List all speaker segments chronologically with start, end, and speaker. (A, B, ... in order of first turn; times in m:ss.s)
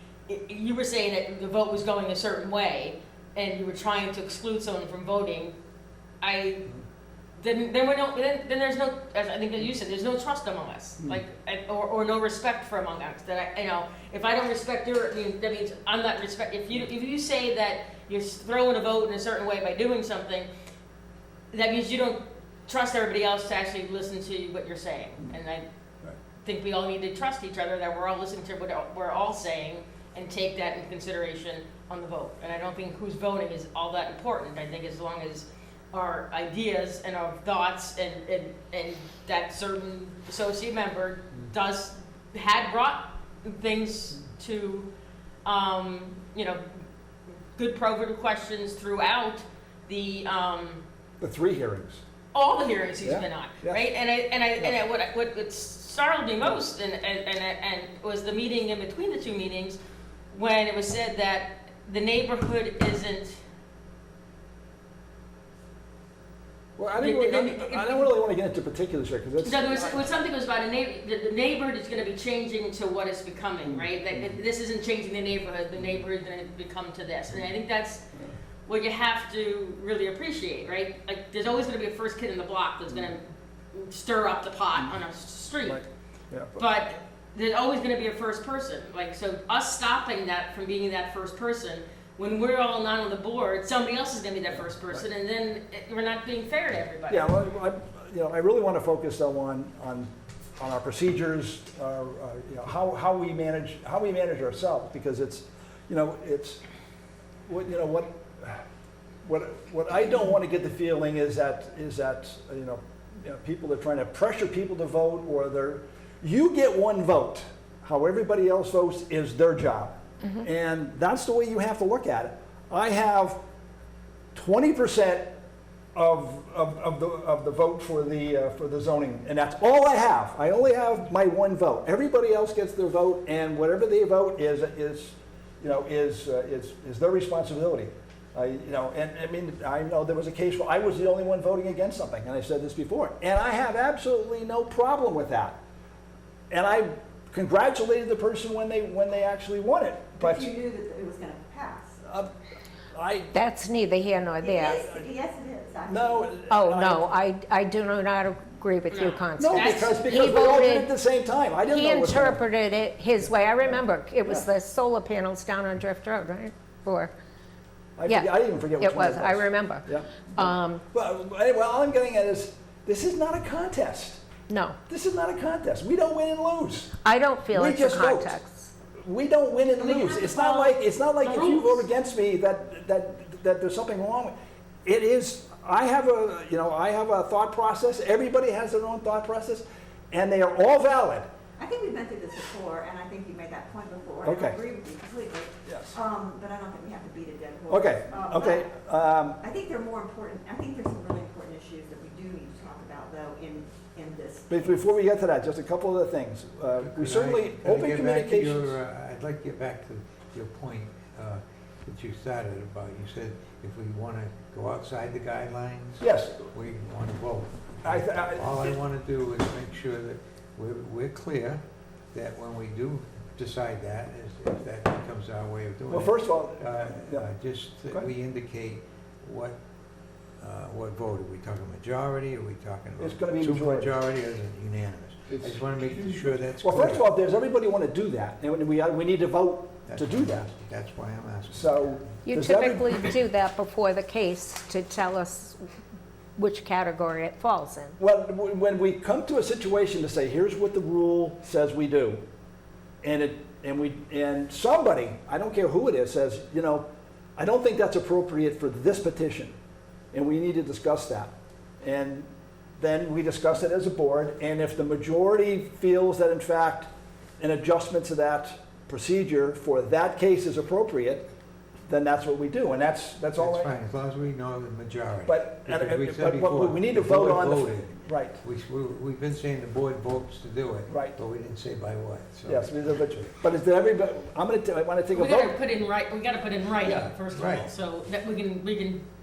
0:00.3-0:05.5 A
0:06.2-0:06.7 A
0:07.4-0:20.5 A
0:21.5-0:25.6 A
0:26.4-0:44.9 A
0:45.4-0:46.8 A
0:47.6-0:50.8 A
0:51.2-0:52.0 B
0:52.3-0:59.8 A
0:53.0-0:53.8 B
1:00.3-1:03.4 A
1:06.8-1:10.1 B
1:07.0-1:08.1 A
1:09.4-1:18.0 A
1:13.7-1:14.3 B
1:18.6-1:25.8 A
1:25.6-1:26.6 B
1:26.6-1:37.3 A
1:37.1-1:46.6 B
1:47.5-1:48.6 B
1:49.2-2:03.4 B
2:04.3-2:05.4 B
2:05.9-2:25.6 B
2:26.5-2:30.5 B
2:30.2-2:32.1 C
2:32.9-2:33.3 B
2:33.3-2:34.8 D
2:34.4-2:36.3 C
2:35.8-2:37.1 B
2:36.5-2:40.9 D
2:38.9-2:40.0 A
2:39.4-2:42.4 B
2:41.7-2:47.1 D
2:48.0-2:54.2 B
2:48.1-2:50.8 D
2:54.5-2:54.8 D
2:54.9-2:56.9 B
2:57.0-2:58.7 D
2:57.5-2:58.4 B
2:59.0-3:11.3 B
2:59.8-3:01.8 A
3:11.6-3:18.7 C
3:14.2-3:14.6 B
3:17.7-3:19.4 B
3:19.4-3:24.9 C
3:24.5-3:28.8 B
3:26.8-3:41.6 E
3:36.0-3:36.4 B
3:37.8-3:38.7 B
3:42.1-3:49.6 E
3:45.9-3:47.3 B
3:50.4-3:57.0 E
3:53.0-3:53.9 B
3:56.6-4:00.5 B
3:59.9-4:02.1 E
4:01.5-4:03.2 B
4:02.2-4:05.6 D
4:06.4-4:08.0 D
4:08.0-4:12.2 B
4:13.0-4:19.5 B
4:20.1-4:31.2 B
4:31.9-4:33.7 B
4:33.4-4:42.7 E
4:35.2-4:38.4 B
4:40.9-4:41.2 B
4:42.4-4:45.6 B
4:45.1-4:49.0 A
4:46.8-4:47.7 E